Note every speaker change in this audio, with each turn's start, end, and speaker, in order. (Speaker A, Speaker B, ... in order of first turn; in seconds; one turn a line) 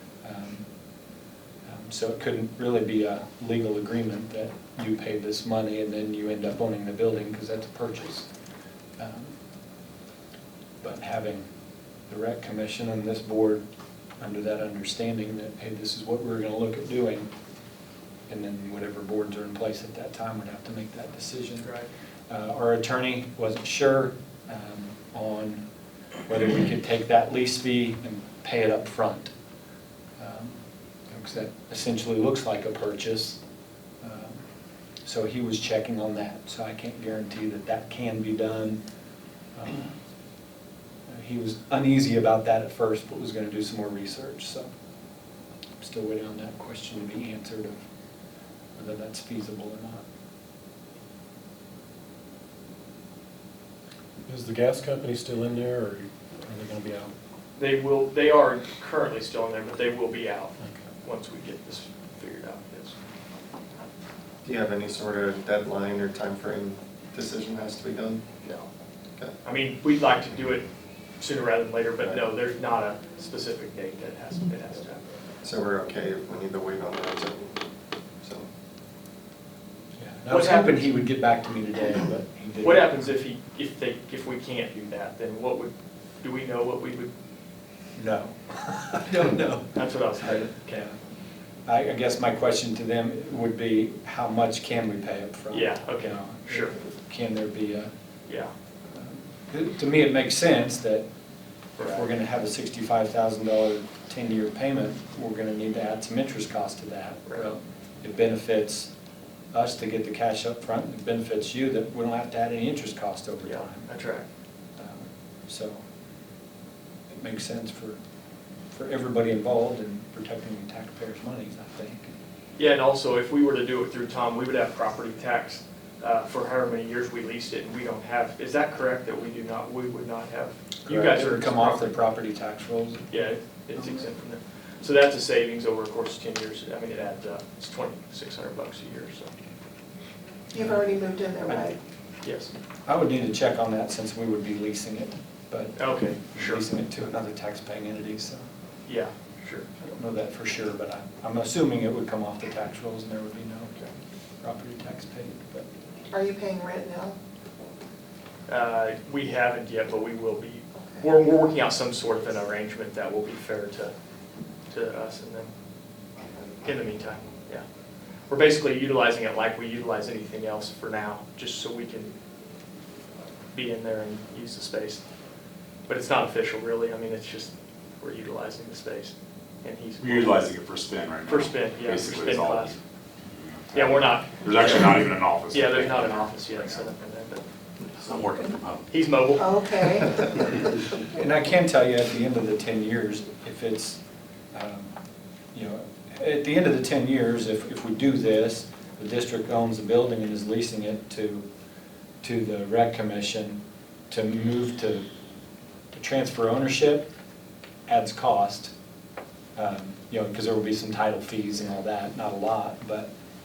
Speaker A: 0.2-0.7
Speaker A: 1.7-8.3
Speaker A: 9.0-9.4
Speaker A: 10.8-11.5
Speaker A: 12.1-13.6
Speaker A: 14.2-17.3
Speaker A: 18.3-21.7
Speaker B: 21.6-21.9
Speaker A: 22.3-25.6
Speaker A: 26.3-29.3
Speaker A: 30.2-33.4
Speaker A: 34.0-34.4
Speaker A: 35.0-38.8
Speaker A: 39.6-39.9
Speaker A: 41.1-44.7
Speaker A: 45.8-47.8
Speaker A: 48.8-50.0
Speaker C: 54.3-57.1
Speaker B: 57.6-63.0
Speaker D: 64.4-68.2
Speaker B: 69.4-70.7
Speaker B: 71.2-75.0
Speaker D: 75.4-77.6
Speaker D: 78.2-78.5
Speaker A: 80.0-83.1
Speaker B: 80.3-81.0
Speaker B: 82.6-87.1
Speaker A: 88.0-89.6
Speaker B: 89.7-90.6
Speaker A: 90.2-91.0
Speaker A: 91.7-97.9
Speaker B: 95.5-96.7
Speaker A: 98.9-101.0
Speaker A: 101.8-108.9
Speaker B: 101.8-102.1
Speaker A: 109.5-113.9
Speaker B: 113.4-114.3
Speaker A: 114.8-115.8
Speaker A: 117.1-118.0
Speaker A: 118.7-122.1
Speaker B: 122.6-132.0
Speaker A: 130.9-133.1
Speaker B: 133.1-139.3
Speaker A: 133.8-134.1
Speaker E: 140.5-141.8
Speaker A: 140.6-140.8
Speaker B: 142.2-142.5
Speaker A: 142.9-148.5
Speaker B: 145.8-146.6
Speaker B: 148.9-149.9
Speaker A: 149.8-153.7
Speaker A: 154.4-155.7
Speaker E: 156.1-157.2
Speaker B: 158.5-163.9
Speaker B: 164.7-165.5
Speaker B: 166.6-167.6
Speaker B: 168.3-172.2
Speaker B: 173.5-175.0
Speaker B: 175.9-180.5
Speaker F: 180.0-182.8
Speaker B: 181.3-182.8
Speaker F: 183.3-186.8
Speaker B: 183.7-187.4
Speaker F: 188.0-188.9
Speaker B: 188.9-190.2
Speaker E: 189.4-190.5
Speaker A: 191.1-194.0
Speaker A: 194.5-194.9
Speaker A: 195.5-201.5
Speaker A: 202.2-205.1
Speaker A: 205.9-207.1
Speaker A: 207.9-208.7
Speaker A: 209.6-213.1